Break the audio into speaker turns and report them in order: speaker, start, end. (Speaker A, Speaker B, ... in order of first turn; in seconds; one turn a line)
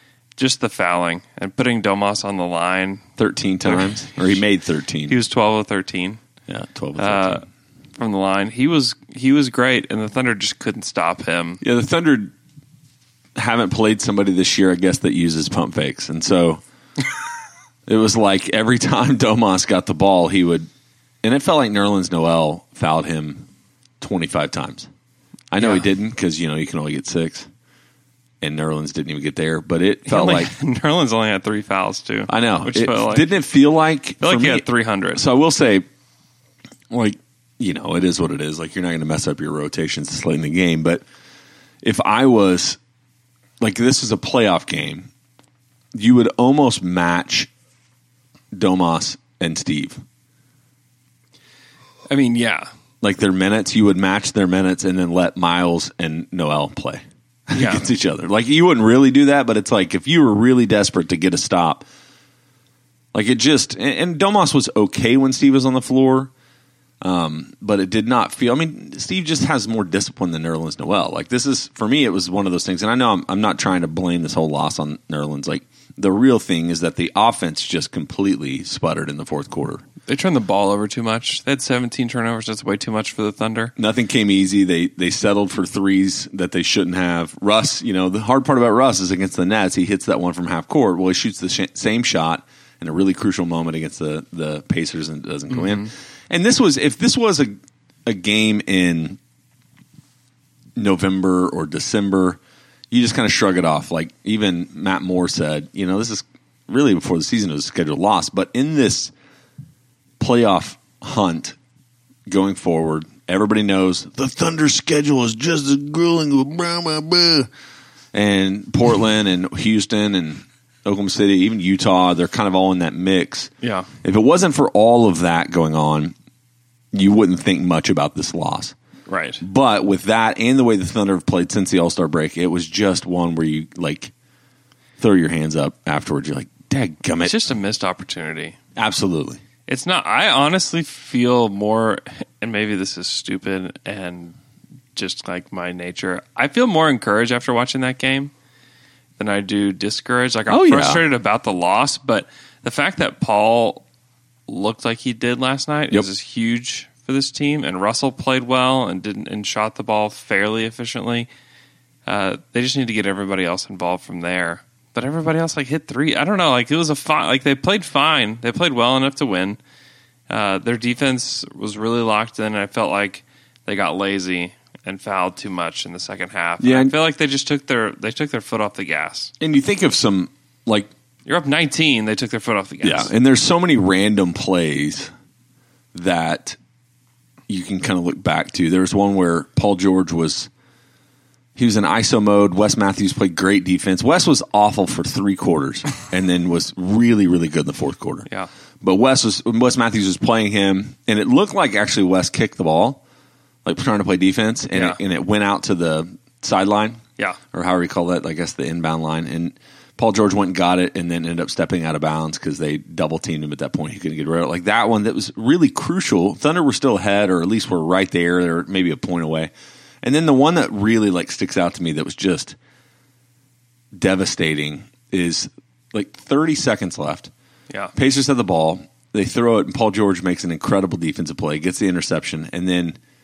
Speaker A: 0.3-3.0
Speaker B: 3.2-5.2
Speaker A: 3.6-4.4
Speaker A: 5.1-6.2
Speaker B: 6.5-7.4
Speaker A: 7.0-7.5
Speaker A: 8.0-11.6
Speaker B: 11.6-12.3
Speaker B: 13.3-16.6
Speaker B: 17.9-20.7
Speaker B: 21.2-23.5
Speaker B: 24.0-24.9
Speaker B: 25.5-27.5
Speaker A: 25.6-25.9
Speaker B: 28.4-30.5
Speaker A: 30.1-33.3
Speaker B: 32.3-35.9
Speaker A: 34.2-35.2
Speaker B: 36.9-41.0
Speaker B: 41.8-42.8
Speaker B: 43.6-45.1
Speaker B: 45.9-47.5
Speaker B: 48.5-50.0
Speaker A: 52.1-52.7
Speaker B: 53.0-61.9
Speaker A: 57.5-57.9
Speaker B: 63.1-66.3
Speaker B: 67.0-79.8
Speaker A: 80.1-83.7
Speaker B: 83.8-99.2
Speaker A: 95.5-95.9
Speaker B: 100.8-102.4
Speaker B: 102.9-109.1
Speaker B: 110.2-111.6
Speaker B: 112.3-117.5
Speaker B: 118.1-123.5
Speaker A: 123.6-123.9
Speaker B: 124.0-126.1
Speaker B: 126.9-128.7
Speaker A: 129.1-129.4
Speaker B: 129.4-134.1
Speaker B: 135.0-137.4
Speaker A: 137.2-138.6
Speaker B: 138.8-139.4
Speaker A: 139.7-144.4
Speaker A: 144.9-148.3
Speaker A: 149.2-153.8
Speaker B: 150.5-151.0
Speaker A: 154.5-161.3
Speaker A: 162.1-169.6
Speaker A: 170.3-179.3
Speaker B: 176.6-176.9
Speaker B: 179.4-180.9
Speaker A: 181.2-183.1
Speaker B: 182.8-185.1
Speaker B: 185.9-186.6
Speaker B: 187.5-190.5
Speaker B: 191.5-198.3
Speaker B: 198.8-203.0
Speaker B: 203.6-207.0
Speaker A: 204.7-205.0
Speaker B: 207.5-222.6
Speaker B: 223.9-227.3
Speaker B: 227.9-233.0